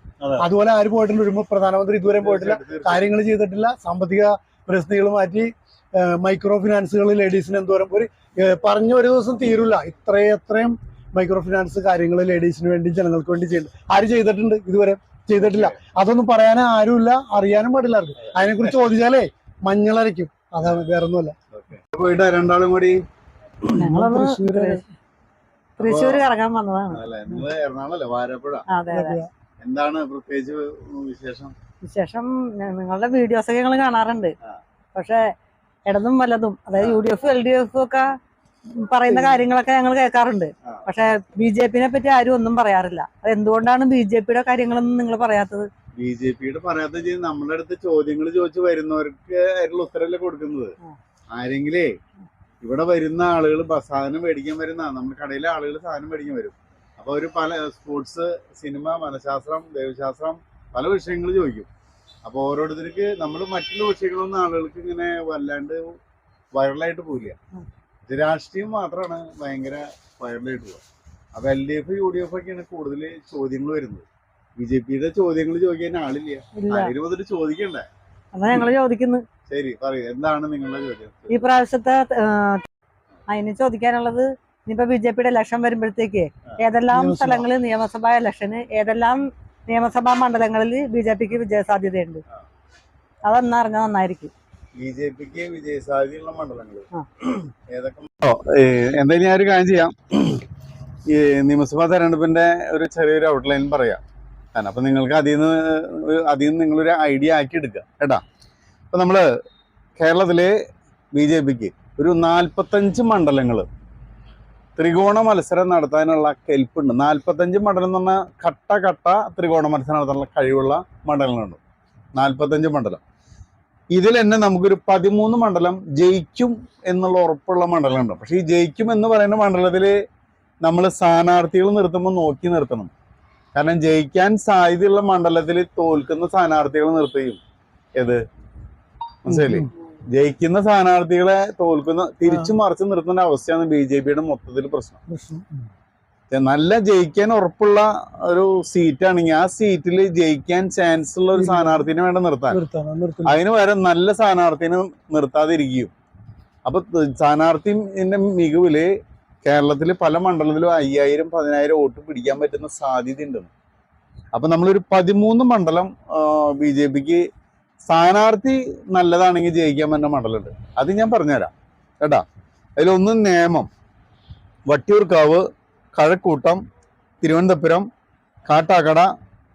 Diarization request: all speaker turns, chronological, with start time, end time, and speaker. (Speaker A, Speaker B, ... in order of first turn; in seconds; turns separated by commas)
Speaker A: 0.2-0.5, Speaker B: 0.4-21.4, Speaker A: 2.1-3.1, Speaker A: 15.4-15.8, Speaker A: 18.3-18.8, Speaker A: 21.5-23.0, Speaker B: 23.7-24.8, Speaker C: 23.8-24.8, Speaker C: 25.8-27.0, Speaker A: 25.8-26.3, Speaker A: 26.9-28.7, Speaker C: 28.7-29.2, Speaker B: 28.9-29.3, Speaker A: 29.6-31.5, Speaker C: 31.8-34.3, Speaker C: 35.0-35.3, Speaker C: 35.9-38.1, Speaker A: 36.8-37.0, Speaker C: 38.7-45.7, Speaker B: 39.1-39.4, Speaker A: 40.6-40.9, Speaker A: 46.0-50.8, Speaker A: 51.3-52.0, Speaker A: 52.6-61.7, Speaker A: 62.2-66.0, Speaker A: 66.5-67.4, Speaker A: 68.1-70.8, Speaker A: 71.3-74.0, Speaker A: 74.6-77.9, Speaker C: 76.6-76.9, Speaker C: 78.3-79.2, Speaker A: 79.5-81.5, Speaker C: 81.3-82.7, Speaker C: 83.3-92.2, Speaker B: 86.9-87.5, Speaker C: 93.2-94.3, Speaker A: 94.8-100.4, Speaker A: 101.1-104.0, Speaker A: 104.5-108.2, Speaker A: 108.9-109.3, Speaker A: 110.0-110.6, Speaker A: 111.1-113.7, Speaker A: 114.8-121.6, Speaker A: 122.2-123.0, Speaker A: 123.9-130.0, Speaker A: 130.6-132.9, Speaker A: 133.5-137.4, Speaker A: 139.2-145.0, Speaker B: 139.3-139.7, Speaker B: 142.3-142.5, Speaker B: 145.1-145.7, Speaker A: 146.3-152.6, Speaker B: 151.3-151.9, Speaker B: 152.5-153.4, Speaker A: 153.3-155.9, Speaker A: 156.7-158.9, Speaker A: 159.4-163.5, Speaker A: 164.3-167.2, Speaker A: 167.9-172.2, Speaker A: 172.8-173.7, Speaker A: 174.7-176.6, Speaker A: 177.2-177.9, Speaker A: 178.5-179.1